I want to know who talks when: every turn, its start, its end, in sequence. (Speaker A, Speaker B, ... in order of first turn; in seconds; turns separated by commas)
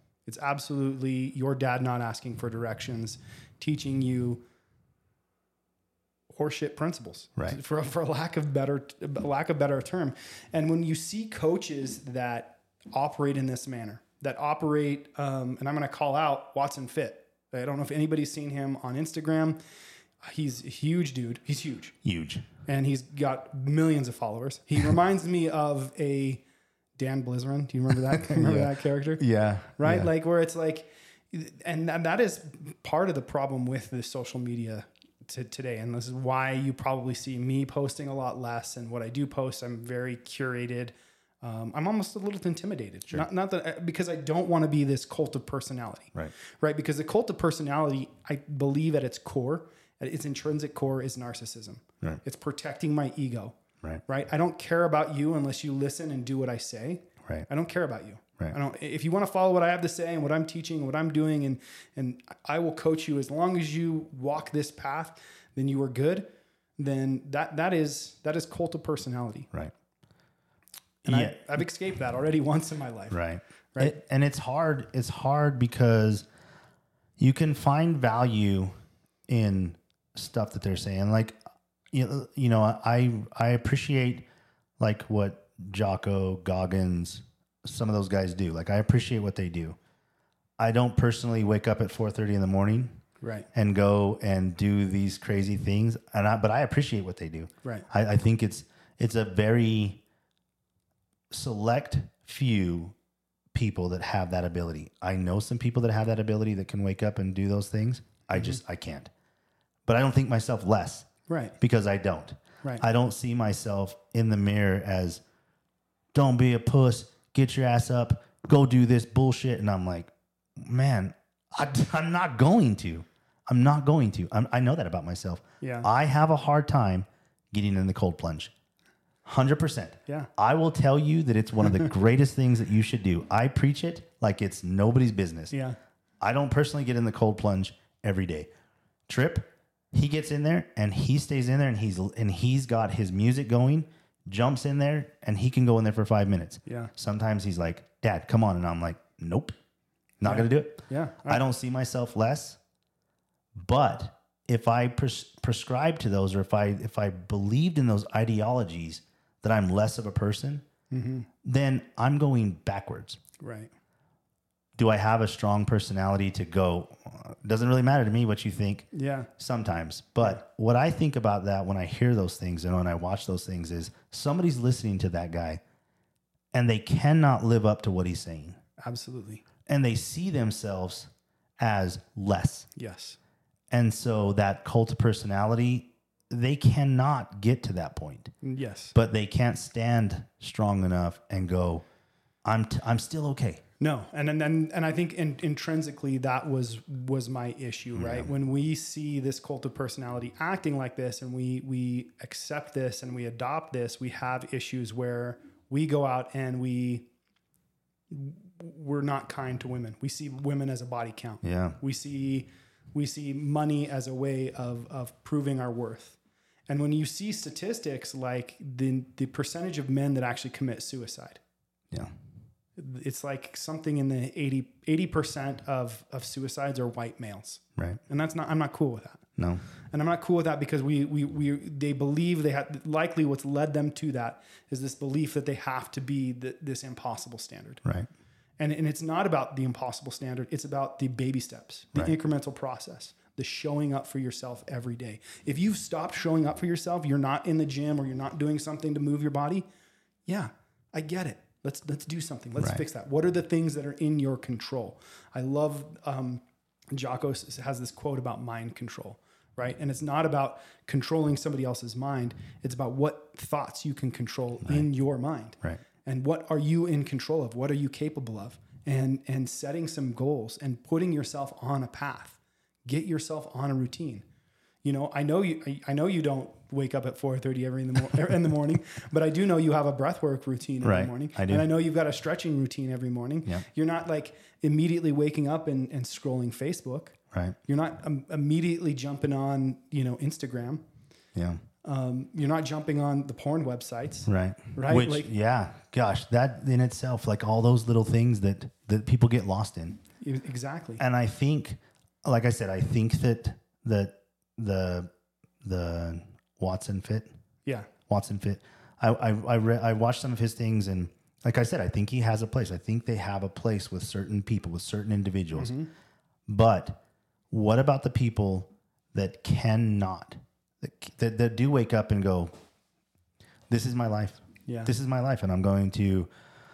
Speaker A: 0.2-4.4, Speaker A: 6.3-19.6, Speaker A: 20.2-21.9, Speaker B: 22.0-22.5, Speaker A: 22.6-26.4, Speaker A: 27.0-29.2, Speaker B: 28.2-30.1, Speaker A: 29.8-53.5, Speaker A: 54.1-69.5, Speaker A: 71.0-73.2, Speaker B: 71.1-71.4, Speaker B: 73.1-76.3, Speaker B: 77.2-78.7, Speaker B: 79.3-81.4, Speaker B: 81.9-84.2, Speaker B: 84.8-89.8, Speaker B: 90.6-93.0, Speaker A: 93.2-93.5, Speaker B: 93.5-100.0, Speaker B: 101.3-102.9, Speaker B: 103.5-109.1, Speaker A: 108.3-108.6, Speaker B: 109.9-111.1, Speaker A: 111.3-111.5, Speaker B: 111.6-115.2, Speaker B: 116.1-128.5, Speaker A: 125.6-125.9, Speaker B: 129.2-135.5, Speaker A: 135.5-135.8, Speaker B: 136.2-138.5, Speaker B: 139.1-149.5, Speaker A: 146.7-146.9, Speaker B: 150.2-152.6, Speaker A: 150.2-151.4, Speaker B: 153.6-160.6, Speaker A: 160.9-161.3, Speaker B: 161.4-163.2, Speaker A: 163.4-163.7, Speaker B: 164.8-175.6, Speaker A: 168.9-169.3, Speaker B: 176.5-178.6, Speaker A: 178.8-179.4, Speaker B: 179.7-182.7, Speaker A: 182.7-183.2, Speaker B: 183.7-188.3, Speaker A: 188.4-188.9, Speaker B: 188.9-191.8, Speaker B: 192.4-193.6, Speaker A: 193.8-207.1, Speaker B: 197.9-198.3, Speaker A: 208.1-221.4, Speaker B: 211.4-211.8, Speaker A: 222.8-229.2, Speaker B: 227.8-228.0, Speaker B: 229.4-229.6, Speaker A: 229.9-237.8, Speaker B: 237.8-238.1, Speaker A: 238.6-249.7, Speaker A: 250.2-274.2, Speaker A: 274.8-290.8, Speaker B: 280.8-281.7, Speaker B: 287.3-287.6, Speaker B: 291.3-291.6, Speaker A: 291.8-295.3, Speaker B: 294.3-300.0, Speaker A: 300.2-301.0, Speaker B: 301.0-305.1, Speaker B: 305.6-307.3, Speaker B: 308.1-315.8, Speaker A: 315.5-315.9, Speaker B: 316.5-317.0, Speaker B: 317.5-322.5, Speaker B: 323.7-326.3, Speaker A: 324.7-324.9